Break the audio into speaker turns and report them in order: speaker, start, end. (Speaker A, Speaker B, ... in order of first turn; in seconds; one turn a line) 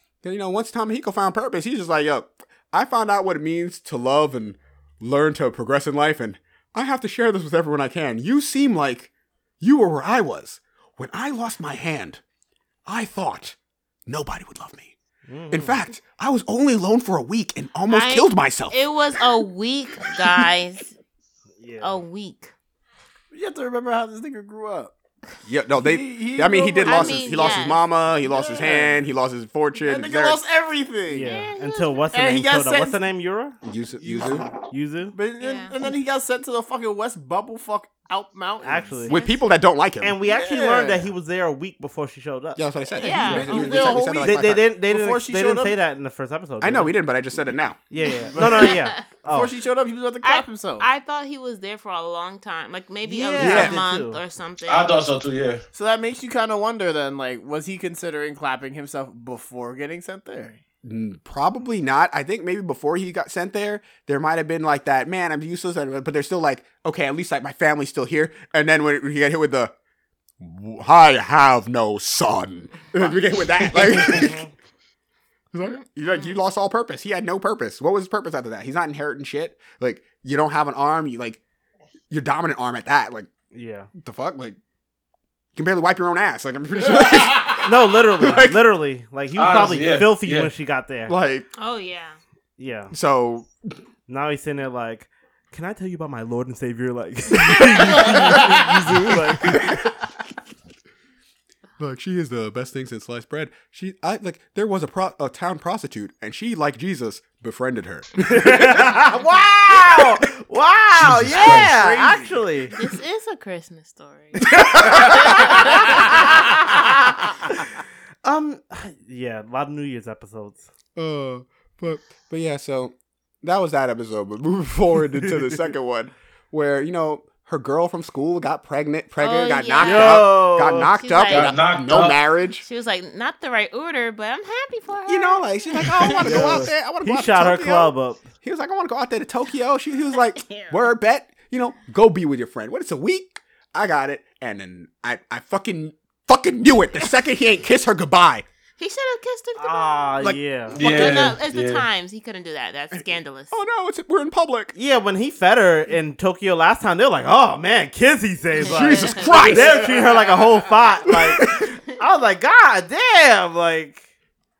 Speaker A: 0.2-12.2
Speaker A: 12.8-14.9
Speaker B: 15.3-15.8
Speaker A: 15.5-19.4
Speaker C: 17.9-20.9
Speaker B: 21.6-22.0
Speaker C: 21.8-22.5
Speaker D: 23.3-24.9
Speaker A: 25.4-30.4
Speaker D: 25.7-27.7
Speaker C: 26.8-27.9
Speaker D: 28.2-29.0
Speaker B: 28.6-29.0
Speaker D: 29.8-31.4
Speaker B: 31.1-33.6
Speaker C: 31.2-32.0
Speaker D: 32.1-33.0
Speaker A: 33.6-34.5
Speaker D: 34.0-34.5
Speaker B: 34.7-35.1
Speaker D: 35.1-39.2
Speaker C: 35.4-35.8
Speaker B: 38.6-39.1
Speaker A: 39.1-40.1
Speaker C: 39.1-39.4
Speaker B: 40.0-47.0
Speaker D: 40.2-41.1
Speaker A: 42.5-44.7
Speaker C: 43.0-44.0
Speaker D: 43.2-45.8
Speaker A: 46.6-47.8
Speaker B: 47.9-49.5
Speaker D: 48.3-50.9
Speaker C: 48.4-49.1
Speaker C: 50.2-54.9
Speaker B: 53.0-54.2
Speaker A: 53.4-53.8
Speaker E: 54.7-55.6
Speaker D: 55.7-60.6
Speaker A: 60.8-69.7
Speaker A: 70.4-74.4
Speaker B: 74.0-74.5
Speaker A: 75.5-81.4
Speaker A: 82.1-83.3
Speaker B: 83.5-83.9
Speaker A: 84.0-84.6
Speaker A: 85.5-88.6
Speaker B: 87.6-91.1
Speaker E: 89.3-90.5
Speaker A: 91.1-91.5
Speaker C: 91.6-92.2
Speaker B: 92.6-92.9
Speaker A: 92.9-93.8
Speaker B: 94.1-99.8
Speaker A: 97.4-100.1
Speaker A: 101.8-108.9
Speaker B: 108.2-112.8
Speaker E: 111.0-111.7
Speaker D: 111.3-112.4
Speaker C: 112.8-116.4
Speaker A: 114.6-115.2
Speaker B: 114.9-117.3
Speaker B: 118.2-120.7
Speaker A: 121.0-132.6
Speaker C: 129.2-131.6
Speaker B: 129.8-130.9
Speaker E: 131.3-132.2
Speaker C: 132.6-136.4
Speaker A: 135.1-148.4
Speaker B: 136.1-138.3
Speaker C: 140.4-140.7
Speaker C: 148.8-150.2
Speaker B: 149.6-150.8
Speaker A: 150.2-151.4
Speaker E: 150.7-151.8
Speaker C: 150.8-153.5
Speaker A: 152.9-154.7
Speaker B: 154.7-164.0
Speaker A: 158.6-159.9
Speaker C: 158.7-159.5
Speaker D: 159.7-160.6
Speaker A: 161.1-161.7